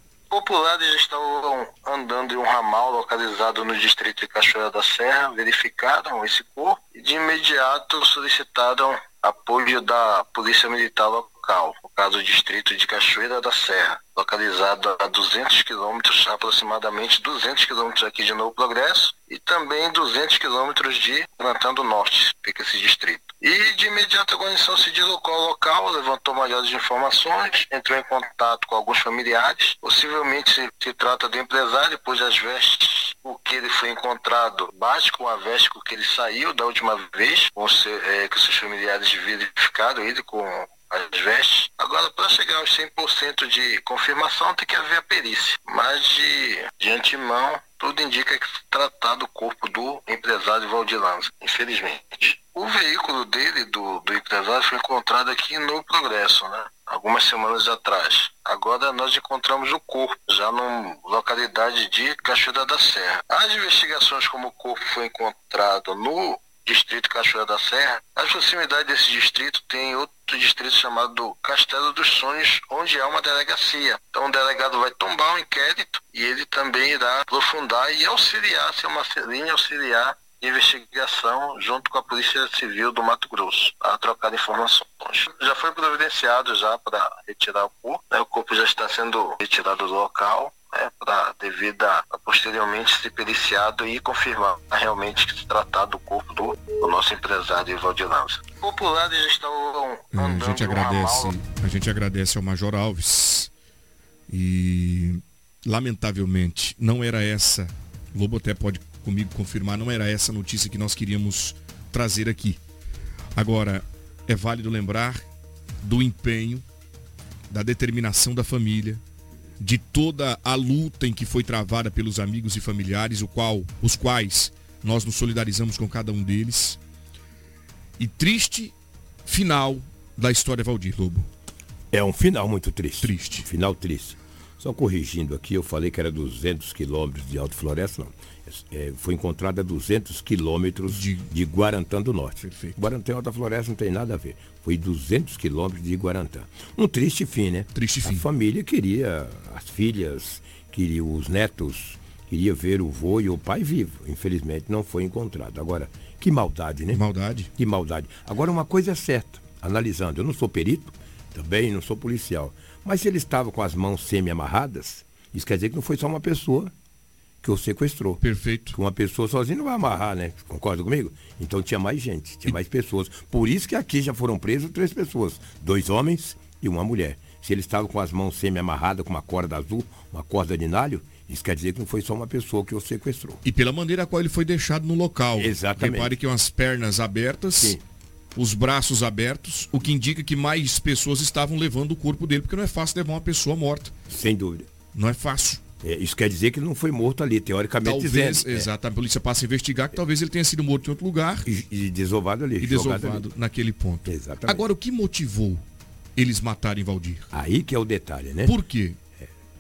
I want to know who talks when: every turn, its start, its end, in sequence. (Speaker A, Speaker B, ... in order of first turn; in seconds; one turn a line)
Speaker A: 0.3-101.3
Speaker B: 100.1-103.5
Speaker B: 104.3-112.6
Speaker B: 113.3-115.2
Speaker B: 115.8-116.6
Speaker B: 117.5-119.0
Speaker B: 119.6-126.8
Speaker B: 128.0-128.7
Speaker B: 129.3-131.3
Speaker C: 131.9-157.0
Speaker B: 133.0-133.5
Speaker B: 140.9-141.3
Speaker B: 142.4-142.8
Speaker B: 147.8-148.2
Speaker B: 156.9-157.5
Speaker C: 157.6-166.7
Speaker C: 167.4-168.2
Speaker B: 168.2-168.8
Speaker C: 168.7-183.4
Speaker B: 183.4-187.8
Speaker C: 185.4-186.2
Speaker B: 188.4-193.9
Speaker C: 194.1-194.7
Speaker B: 194.9-195.6
Speaker C: 195.8-198.7
Speaker B: 197.8-201.5
Speaker C: 201.4-203.2
Speaker B: 202.6-205.6
Speaker C: 204.1-204.6
Speaker B: 206.2-207.3
Speaker C: 207.3-208.6
Speaker B: 208.5-209.0